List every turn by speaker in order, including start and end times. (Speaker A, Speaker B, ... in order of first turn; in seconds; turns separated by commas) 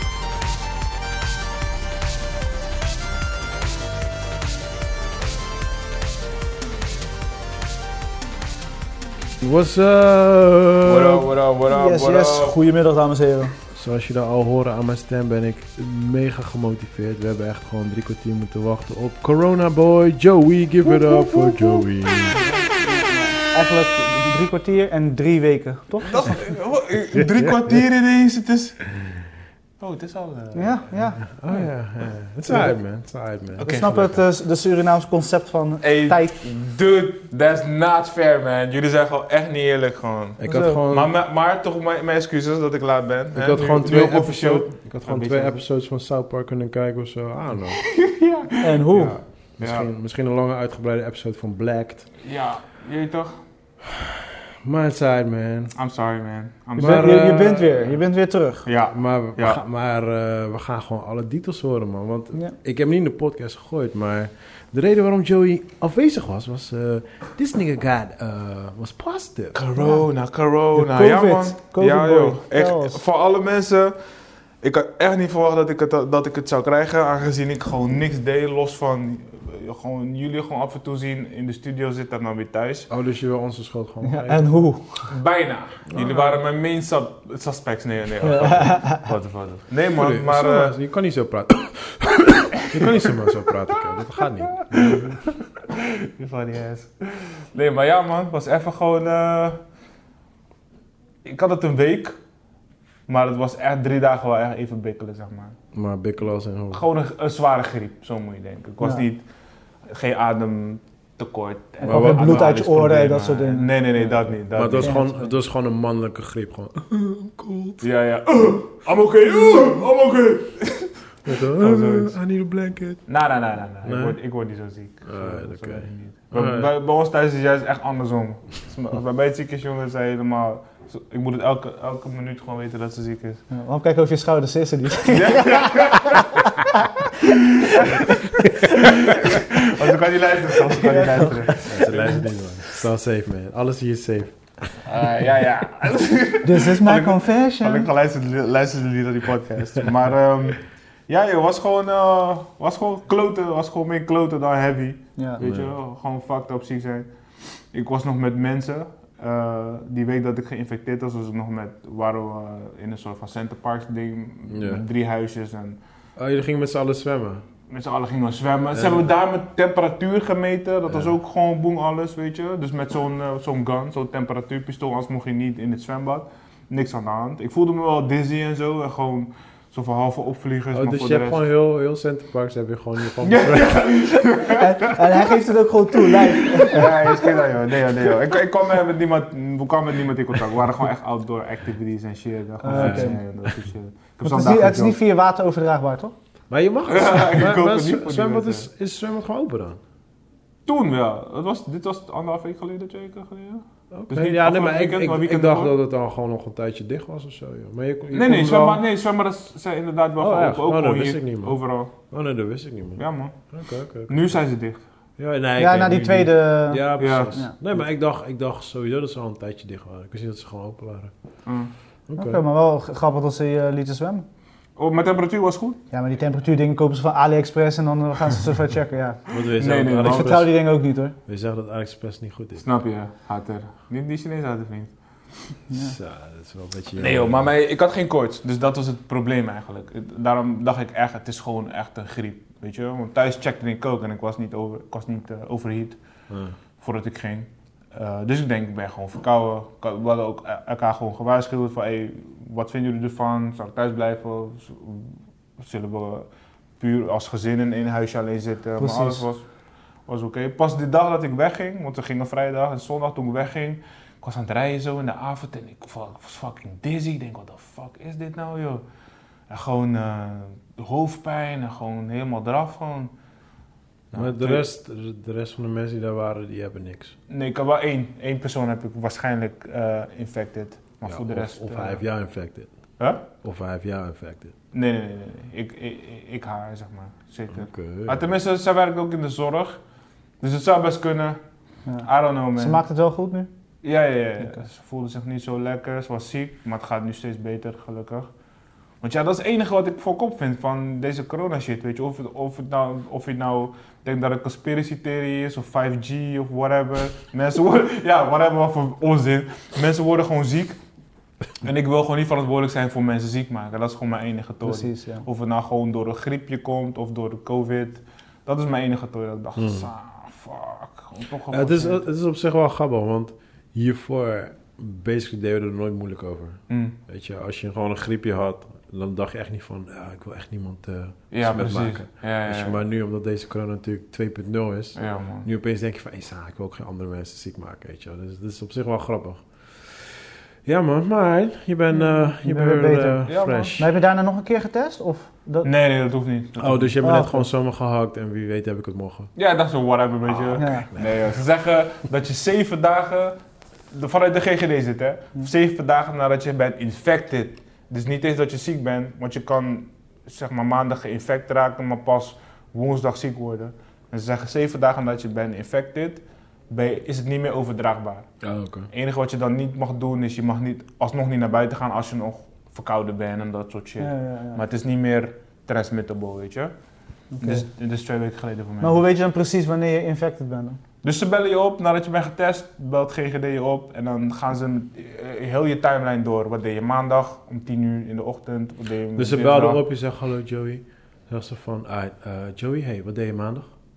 Speaker A: 9.4-11.2, Speaker B: 10.8-12.6, Speaker C: 11.6-13.6, Speaker A: 13.7-22.4, Speaker C: 20.9-21.9, Speaker B: 22.3-23.4, Speaker C: 23.4-26.4, Speaker B: 26.0-28.9, Speaker A: 27.1-27.8, Speaker B: 29.8-30.9, Speaker C: 30.5-31.2, Speaker A: 31.2-33.7, Speaker C: 32.5-32.8, Speaker C: 33.6-36.4, Speaker B: 33.6-34.2, Speaker B: 35.8-45.6, Speaker A: 40.4-41.1, Speaker C: 40.5-40.8, Speaker A: 43.3-47.8, Speaker B: 47.7-49.9, Speaker C: 48.6-49.2, Speaker A: 49.0-52.1, Speaker B: 52.2-53.4, Speaker A: 53.9-55.7, Speaker B: 55.8-57.4, Speaker A: 56.8-57.9, Speaker C: 56.8-58.7, Speaker B: 58.7-59.6, Speaker A: 58.9-69.6, Speaker B: 69.5-74.0, Speaker C: 69.8-70.1, Speaker C: 70.7-73.0, Speaker B: 74.6-82.9, Speaker A: 82.9-84.6, Speaker C: 84.0-85.2, Speaker B: 85.1-90.8, Speaker A: 85.9-86.3, Speaker C: 88.2-89.1, Speaker A: 90.0-95.2, Speaker B: 92.8-93.3, Speaker B: 94.6-99.6, Speaker B: 101.2-102.2, Speaker B: 103.1-105.6, Speaker A: 105.7-106.8, Speaker B: 106.7-109.2, Speaker B: 109.9-115.1, Speaker A: 111.8-112.5, Speaker C: 111.8-113.8, Speaker A: 114.5-117.9, Speaker C: 114.8-115.2, Speaker B: 117.8-122.2, Speaker A: 121.3-123.0, Speaker B: 123.1-133.4, Speaker A: 123.8-124.2, Speaker A: 125.0-126.7, Speaker C: 133.5-136.5, Speaker B: 135.1-136.2, Speaker B: 137.6-138.0, Speaker C: 137.7-138.1, Speaker B: 138.8-142.2, Speaker C: 140.7-141.6, Speaker A: 141.6-144.8, Speaker B: 144.8-157.1, Speaker C: 146.4-147.9, Speaker A: 155.4-155.7, Speaker B: 157.7-165.8, Speaker A: 164.5-164.8, Speaker A: 166.2-167.4, Speaker B: 167.7-181.4, Speaker A: 168.7-169.1, Speaker A: 180.7-184.2, Speaker B: 183.3-184.7, Speaker C: 184.4-187.1, Speaker B: 186.6-195.0, Speaker C: 192.6-193.2, Speaker A: 192.7-193.1, Speaker C: 194.2-196.1, Speaker A: 196.5-199.8, Speaker B: 196.9-198.7, Speaker B: 200.7-205.7, Speaker A: 203.9-208.8, Speaker B: 208.1-211.9, Speaker A: 210.2-214.4, Speaker B: 213.0-213.5, Speaker B: 214.1-214.8, Speaker A: 215.2-221.1, Speaker C: 215.6-217.5, Speaker B: 217.0-217.3, Speaker A: 222.1-222.4, Speaker C: 222.2-224.3, Speaker B: 224.8-225.8, Speaker C: 225.9-229.2, Speaker A: 229.3-230.6, Speaker B: 229.6-230.4, Speaker C: 230.0-231.2, Speaker A: 231.3-232.7, Speaker B: 232.6-234.9, Speaker C: 235.7-235.9, Speaker A: 235.7-237.5, Speaker B: 237.0-246.0, Speaker A: 246.3-246.6, Speaker B: 246.8-256.3, Speaker B: 256.8-259.4, Speaker C: 258.8-259.2, Speaker B: 260.1-268.8, Speaker B: 269.5-273.1, Speaker B: 274.1-274.7, Speaker A: 274.1-277.1, Speaker B: 277.3-282.0, Speaker A: 281.1-282.7, Speaker A: 283.4-284.5, Speaker B: 284.7-289.8, Speaker A: 287.5-288.3, Speaker B: 290.4-291.4, Speaker C: 291.9-293.5, Speaker B: 292.0-292.8, Speaker B: 293.8-298.3, Speaker B: 299.0-310.8, Speaker B: 311.6-322.0, Speaker C: 314.6-315.2, Speaker A: 319.6-319.9, Speaker A: 321.5-343.9, Speaker B: 326.7-327.0, Speaker B: 331.3-332.8, Speaker B: 335.0-335.5, Speaker C: 341.9-345.7, Speaker B: 343.3-343.8, Speaker B: 345.6-346.9, Speaker A: 346.6-349.3, Speaker C: 347.0-347.5, Speaker B: 349.4-353.4, Speaker C: 350.6-350.9, Speaker B: 353.9-368.3, Speaker A: 368.4-368.9, Speaker B: 368.9-376.7, Speaker C: 374.0-374.6, Speaker C: 377.3-377.7, Speaker B: 377.4-379.0, Speaker C: 378.8-380.8, Speaker B: 381.0-389.8, Speaker A: 389.2-393.7